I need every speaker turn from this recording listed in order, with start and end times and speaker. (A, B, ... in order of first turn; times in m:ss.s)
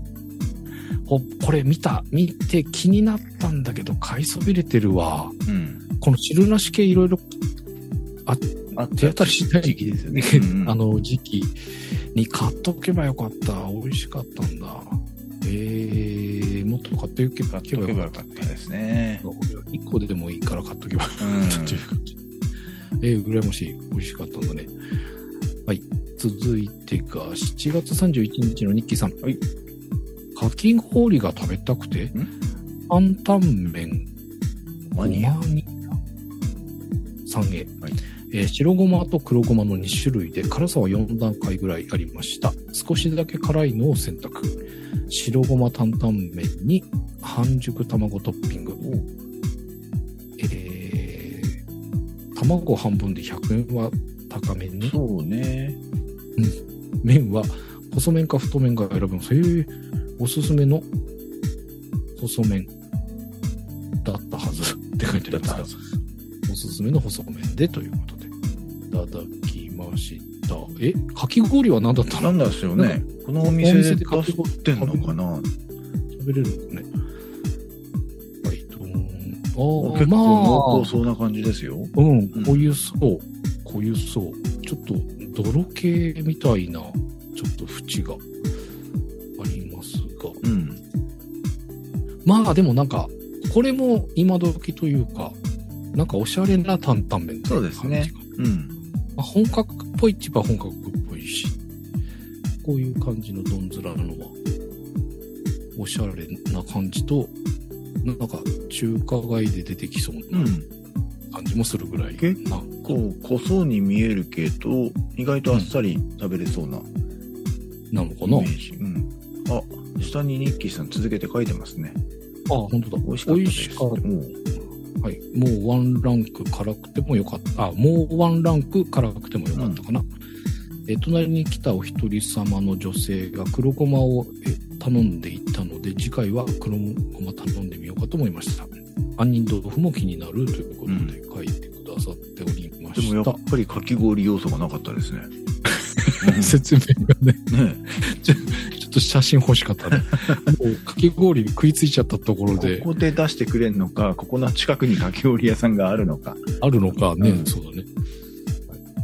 0:01.1-0:05.4 A
0:05.4-0:05.8 B
0:06.0-0:07.2 A
0:08.3-0:11.6 A
0:08.7-0:10.8 B
0:12.1-0:18.5 A
0:17.5-0:19.2 B
0:19.2-0:22.2 A
0:21.2-0:21.9 B
0:23.0-0:24.7 A
0:25.6-0:29.2 A
0:30.4-0:32.1 A
0:32.9-0:34.1 A
0:34.9-0:35.4 B
0:35.0-0:35.9 A
0:37.3-0:37.8 A
0:38.3-0:44.6 A
0:45.1-0:48.8 A
0:48.8-0:49.1 B
0:50.4-0:51.6 A
0:52.4-0:54.9 A
0:54.8-0:55.8 B
0:56.4-1:00.9 A
1:02.2-1:02.7 A
1:04.0-1:05.7 A
1:05.3-1:05.7 B
1:06.5-1:08.3 A
1:08.9-1:15.2 A
1:12.2-1:15.5 B
1:16.1-1:16.9 A
1:18.4-1:21.0 A
1:19.8-1:22.7 B
1:22.0-1:28.2 A
1:29.4-1:30.4 A
1:30.4-1:30.8 B
1:32.2-1:35.4 A
1:35.9-1:38.2 A
1:37.5-1:38.8 B
1:39.2-1:41.6 A
1:42.6-1:44.4 A
1:45.8-1:47.4 A
1:48.0-1:50.6 A
1:50.3-1:50.6 B
1:51.3-1:52.9 A
1:52.2-1:56.9 B
1:57.9-1:58.5 A
1:58.2-2:02.0 B
2:02.5-2:04.0 A
2:03.0-2:04.3 B
2:05.0-2:10.1 A
2:09.5-2:09.8 B
2:10.9-2:23.4 A
2:20.9-2:21.2 B
2:22.9-2:25.3 B
2:26.0-2:32.9 A
2:26.2-2:26.6 B
2:27.5-2:27.8 B
2:32.6-2:36.4 B
2:36.6-2:37.9 A
2:37.2-2:37.5 B